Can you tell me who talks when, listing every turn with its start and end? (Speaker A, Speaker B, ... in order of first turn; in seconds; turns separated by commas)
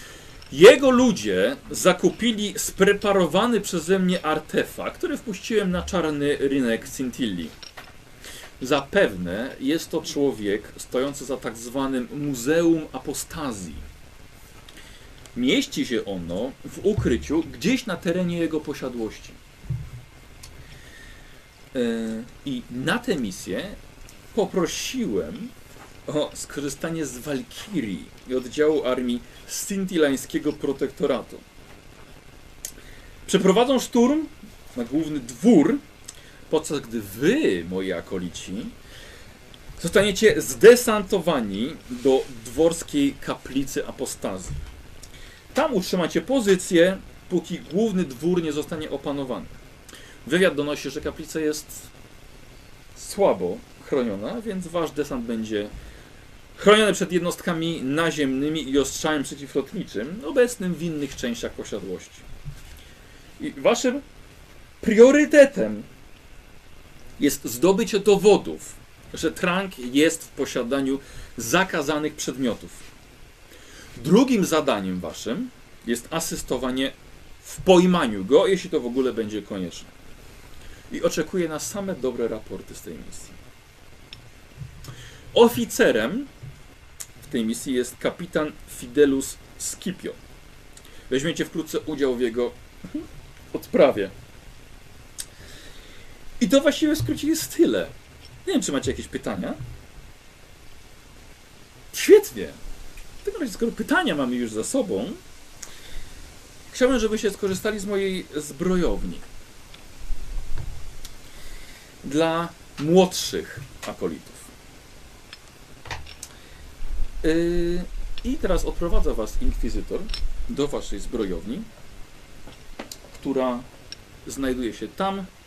Speaker A: 0.5-7.5, Speaker A: 8.6-13.8, Speaker A: 15.3-19.4, Speaker A: 21.7-23.8, Speaker A: 24.3-25.5, Speaker A: 26.1-31.4, Speaker A: 33.3-35.8, Speaker A: 36.5-38.7, Speaker A: 39.8-44.6, Speaker A: 45.5-49.6, Speaker A: 50.2-51.9, Speaker A: 53.0-55.7, Speaker A: 56.6-62.2, Speaker A: 63.4-64.0, Speaker A: 64.8-65.9, Speaker A: 67.2-72.8, Speaker A: 74.0-79.9, Speaker A: 80.9-83.4, Speaker A: 85.3-86.3, Speaker A: 87.2-90.2, Speaker A: 91.1-94.1, Speaker A: 96.4-97.9, Speaker A: 98.5-99.6, Speaker A: 101.9-102.6, Speaker A: 103.2-105.2, Speaker A: 106.7-109.2, Speaker A: 112.0-114.5, Speaker A: 117.2-121.7, Speaker A: 123.2-123.7, Speaker A: 124.2-125.3